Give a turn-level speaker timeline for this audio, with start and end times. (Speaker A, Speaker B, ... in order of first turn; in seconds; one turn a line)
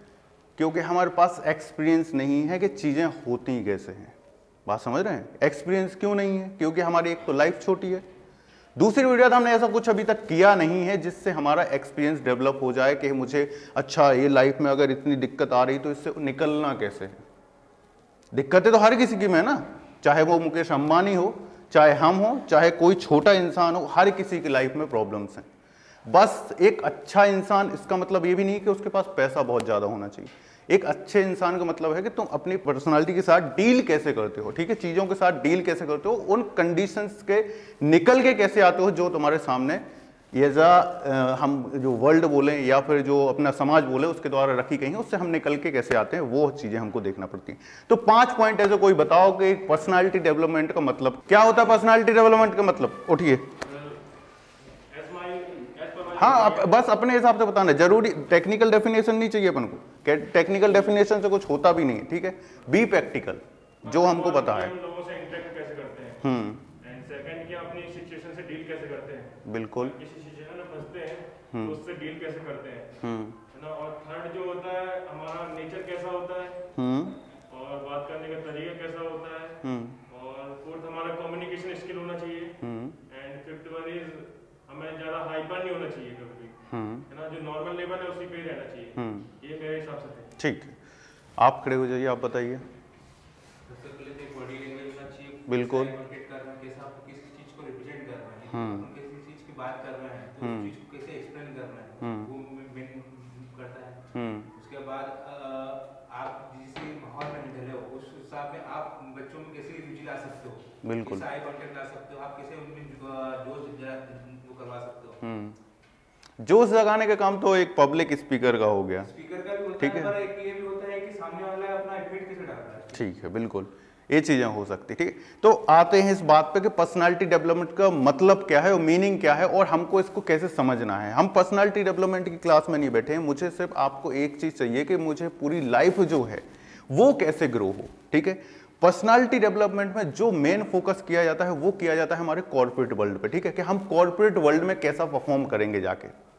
Speaker A: 0.6-4.1
Speaker A: 4.7-8.1
Speaker A: 8.8-17.2
Speaker A: 18.3-25.5
Speaker A: 26.1-53.5
Speaker B: 53.7-54.0
Speaker B: 54.9-56.7
Speaker A: 56.2-64.7
Speaker B: 63.8-66.2
Speaker A: 66.2-66.6
Speaker B: 66.8-76.6
Speaker A: 69.5-70.0
Speaker A: 71.5-71.8
Speaker A: 73.0-73.4
Speaker A: 76.8-77.2
Speaker B: 77.5-79.6
Speaker A: 79.6-80.0
Speaker B: 80.1-82.5
Speaker A: 82.6-83.0
Speaker B: 83.1-86.6
Speaker A: 86.7-87.1
Speaker B: 87.1-90.3
Speaker A: 89.0-89.3
Speaker A: 90.4-90.8
Speaker A: 91.4-92.6
Speaker C: 93.7-104.0
Speaker A: 95.5-96.0
Speaker A: 98.5-98.9
Speaker A: 100.4-100.8
Speaker A: 102.0-102.3
Speaker A: 104.1-104.5
Speaker C: 104.5-115.2
Speaker A: 110.8-111.3
Speaker A: 115.2-115.6
Speaker A: 116.4-119.1
Speaker C: 119.0-123.1
Speaker A: 119.8-120.2
Speaker A: 122.9-146.1